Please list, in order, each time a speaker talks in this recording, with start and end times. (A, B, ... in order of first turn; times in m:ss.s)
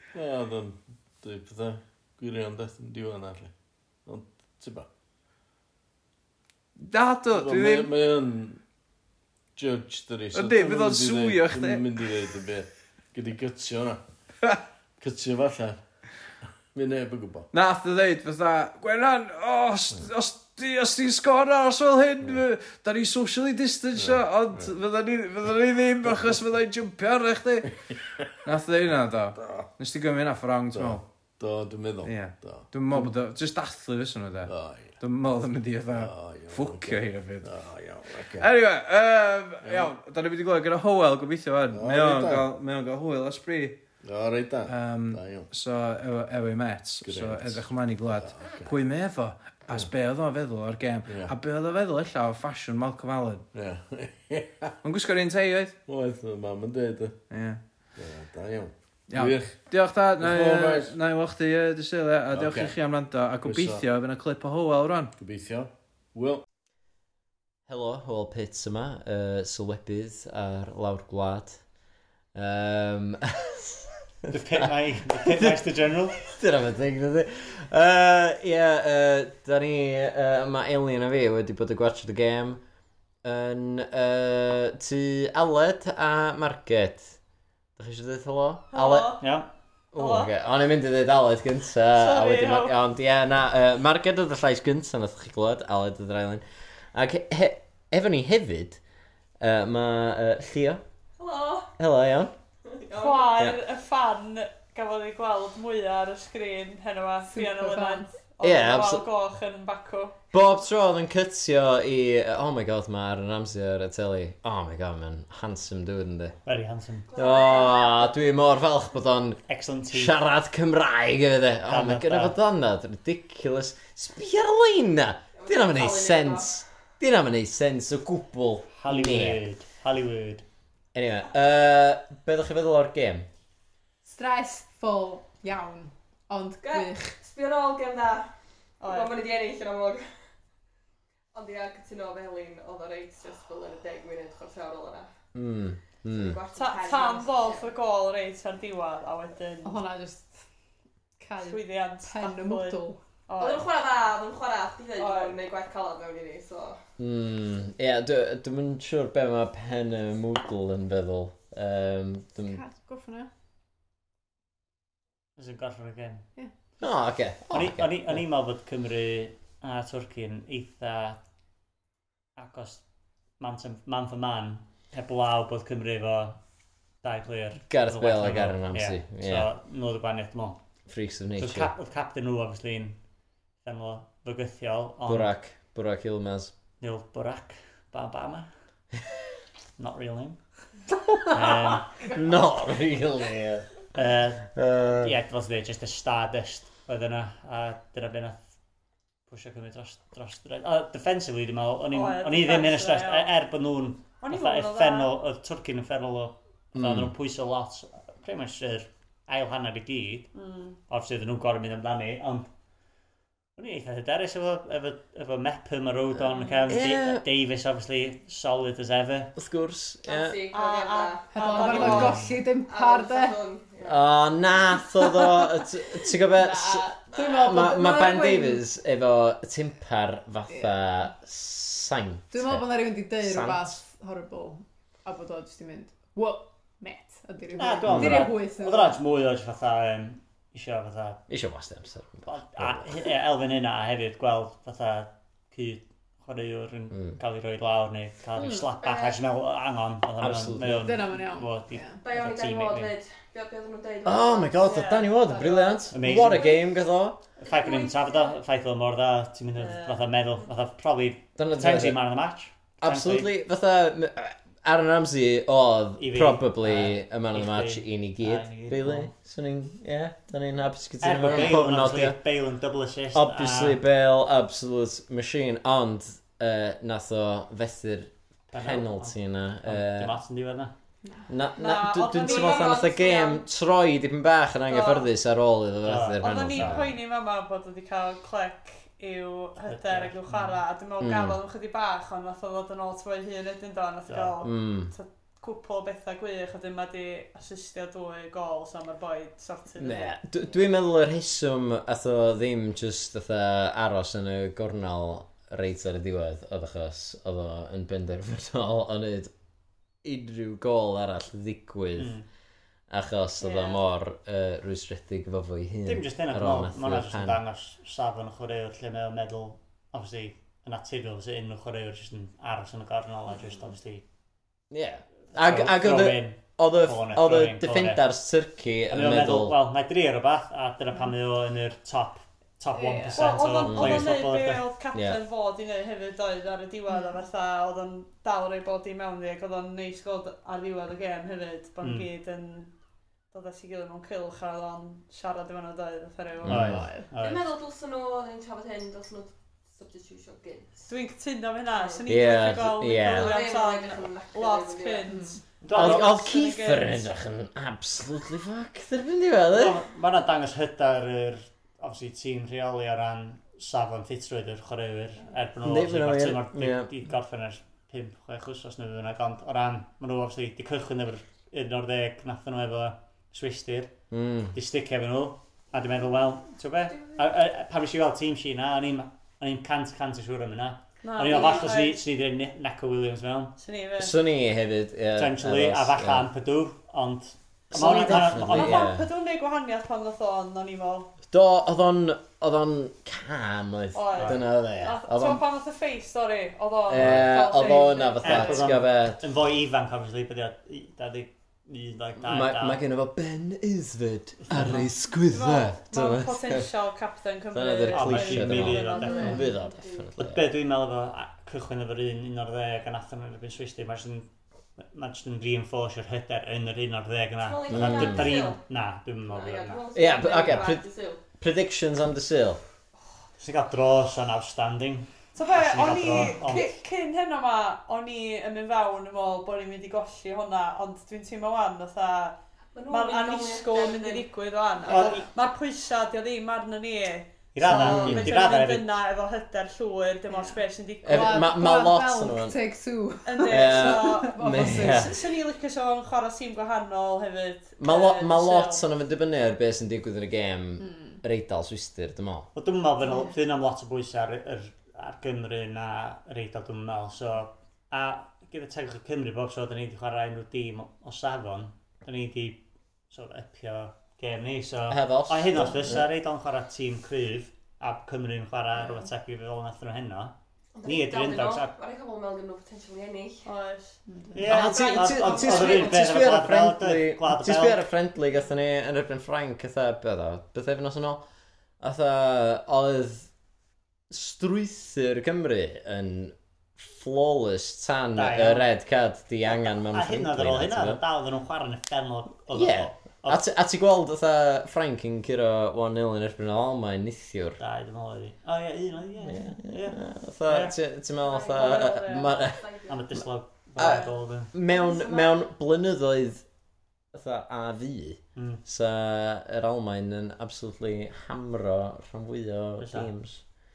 0:00.1-0:03.5 A
0:04.1-0:04.9 A
0:06.8-0:07.9 B
0:07.3-0:08.6 A
0:09.6-0:14.0 A
0:10.3-0:12.1 B
0:15.0-0:15.8 A
0:16.7-0:17.5 A
0:17.5-0:27.7 B
0:24.0-0:24.7 A
0:26.0-0:26.4 A
0:27.9-0:28.4 A
0:28.4-0:31.0 B
0:29.4-0:29.7 A
0:30.7-0:33.1 A
0:32.0-0:37.5 B
0:34.5-0:35.0 A
0:35.9-0:38.5 A
0:38.4-0:43.8 B
0:39.6-0:39.9 A
0:41.7-0:42.5 A
0:44.0-0:45.5 A
0:44.7-0:53.4 B
0:47.0-0:48.7 A
0:51.1-0:51.3 A
0:53.5-0:54.8 A
0:54.8-0:55.8 B
0:55.9-0:57.2 A
0:57.3-0:57.6 B
0:58.0-0:59.6 A
0:59.1-1:05.1 B
1:00.2-1:01.0 A
1:02.3-1:02.8 A
1:03.4-1:03.8 A
1:05.2-1:06.4 A
1:07.7-1:11.6 C
1:12.3-1:22.6 C
1:14.3-1:16.2 D
1:23.2-1:27.2 C
1:27.8-1:29.2 C
1:28.7-1:29.2 E
1:29.2-1:29.5 D
1:29.9-1:38.8 C
1:30.0-1:30.3 E
1:31.9-1:32.8 E
1:39.4-1:40.8 C
1:41.2-1:41.7 F
1:41.8-1:42.3 C
1:42.8-1:43.4 F
1:43.0-1:50.2 E
1:47.2-1:48.3 G
1:48.4-1:49.0 C
1:50.3-1:56.4 C
1:56.5-1:57.1 D
1:57.1-1:58.3 F
1:57.1-2:09.4 C
1:59.5-2:00.1 D
2:01.7-2:02.4 D
2:05.4-2:06.6 F
2:08.7-2:10.4 D
2:10.9-2:13.3 C
2:14.0-2:17.2 G
2:16.6-2:18.3 F
2:18.8-2:19.2 E
2:18.8-2:20.0 F
2:21.3-2:25.1 F
2:25.3-2:26.4 C
2:26.1-2:27.7 F
2:26.6-2:29.8 E
2:29.6-2:30.4 G
2:31.2-2:33.0 G
2:31.4-2:33.7 E
2:33.4-2:36.8 F
2:35.0-2:35.4 E
2:37.0-2:42.6 C
2:42.4-2:43.3 G
2:45.4-2:46.2 D
2:46.8-2:48.2 C
2:47.5-2:51.2 D
2:52.4-2:52.8 D
2:53.4-2:56.4 D
2:57.0-3:00.6 D
2:57.6-2:59.5 C
3:00.9-3:01.7 C
3:01.4-3:03.0 D
3:03.6-3:05.4 D
3:05.0-3:06.5 C
3:06.8-3:08.5 D
3:09.8-3:10.4 D
3:11.3-3:12.1 D
3:11.3-3:13.8 C
3:13.9-3:18.5 D
3:14.5-3:15.1 C
3:19.3-3:30.3 D
3:21.9-3:23.3 E
3:24.2-3:25.1 E
3:26.8-3:27.1 C
3:30.3-3:30.8 E
3:30.8-3:32.5 D
3:33.6-3:39.3 D
3:36.3-3:36.7 E
3:36.7-3:37.2 C
3:39.4-3:40.4 C
3:40.1-3:44.3 F
3:40.5-3:42.3 E
3:41.3-3:43.4 G
3:41.9-3:42.2 C
3:43.8-3:53.8 C
3:46.3-3:48.4 G
3:47.2-3:48.6 F
3:50.5-3:51.1 G
3:52.3-3:59.0 G
3:57.6-4:01.2 D
3:57.9-3:58.3 C
4:01.3-4:02.8 C
4:02.3-4:12.9 D
4:06.9-4:07.2 C
4:08.4-4:08.7 G
4:08.8-4:09.2 F
4:10.2-4:10.8 C
4:10.8-4:12.0 G
4:12.0-4:15.1 F
4:14.0-4:17.2 C
4:14.7-4:15.1 E
4:15.2-4:16.0 G
4:15.9-4:16.6 D
4:16.1-4:16.6 F
4:17.4-4:23.3 D
4:17.4-4:18.4 F
4:19.6-4:20.1 F
4:21.4-4:22.0 C
4:22.8-4:32.2 C
4:26.0-4:29.1 D
4:31.0-4:33.8 D
4:33.1-4:40.2 C
4:38.5-4:40.7 D
4:41.0-4:41.4 G
4:41.3-4:47.0 C
4:41.6-4:43.2 E
4:42.0-4:43.4 F
4:44.7-4:45.1 E
4:45.8-4:46.9 D
4:46.2-5:00.1 E
4:49.6-4:50.6 D
4:51.0-4:51.4 C
4:54.1-4:54.4 D
4:54.4-4:54.9 C
4:59.8-5:09.3 C
5:10.0-5:12.2 C
5:12.0-5:12.3 D
5:12.9-5:17.4 C
5:13.4-5:13.8 E
5:15.9-5:24.0 D
5:24.7-5:29.6 C
5:25.3-5:28.1 D
5:28.9-5:34.7 D
5:32.7-5:33.5 G
5:33.1-5:42.7 E
5:33.7-5:34.1 C
5:34.9-5:35.2 C
5:41.8-5:42.1 D
5:43.3-5:46.6 E
5:46.4-5:46.9 C
5:46.4-5:47.4 D
5:46.6-5:47.1 G
5:47.2-5:50.9 F
5:50.9-5:57.1 E
5:51.7-5:52.3 F
5:52.1-5:53.4 C
5:53.0-5:55.1 F
5:55.1-5:55.4 G
5:55.6-5:56.2 D
5:55.7-5:59.8 C
5:59.5-6:14.0 D
6:05.6-6:06.9 C
6:14.1-6:14.6 C
6:14.5-6:23.6 D
6:16.9-6:17.2 F
6:21.0-6:22.0 E
6:21.2-6:21.7 F
6:23.6-6:24.2 E
6:24.0-6:26.3 C
6:25.2-6:28.9 D
6:27.7-6:29.1 C
6:27.8-6:31.1 E
6:31.3-6:35.4 C
6:33.9-6:38.8 E
6:34.2-6:34.4 D
6:36.9-6:39.2 C
6:36.9-6:37.3 D
6:38.2-6:42.8 D
6:42.2-6:46.7 C
6:44.4-6:44.9 D
6:45.2-6:49.5 E
6:47.5-6:50.5 C
6:47.9-6:49.5 D
6:48.9-6:50.2 F
6:50.2-7:00.6 D
6:57.4-6:58.6 F
6:57.7-6:58.5 C
6:59.3-7:01.2 F
6:59.9-7:00.9 C
7:01.4-7:02.6 C
7:03.4-7:06.8 D
7:05.3-7:12.4 E
7:12.7-7:14.3 F
7:12.9-7:21.5 E
7:14.8-7:15.3 F
7:14.9-7:15.3 D
7:17.5-7:18.9 D
7:17.7-7:18.3 F
7:18.0-7:18.2 C
7:20.3-7:25.2 G
7:21.0-7:22.6 C
7:23.2-7:28.9 E
7:23.5-7:25.2 C
7:27.8-7:32.5 C
7:30.8-7:31.2 G
7:32.5-7:51.8 D
7:44.9-7:46.0 C
7:50.8-7:53.5 F
7:53.4-7:55.9 E
7:54.1-7:54.4 G
7:54.3-7:57.8 D
7:54.4-8:01.2 C
7:54.7-7:56.1 F
8:01.8-8:03.3 C
8:04.1-8:11.0 C
8:08.2-8:08.7 D
8:09.5-8:13.4 D
8:12.5-8:17.6 C
8:17.6-8:20.8 D
8:19.2-8:22.8 C
8:21.2-8:23.2 F
8:21.5-8:22.4 E
8:22.9-8:24.5 D
8:23.8-8:26.4 C
8:23.8-8:24.1 F
8:24.6-8:25.4 F
8:27.1-8:33.4 C
8:28.4-8:28.6 D
8:32.8-8:33.1 D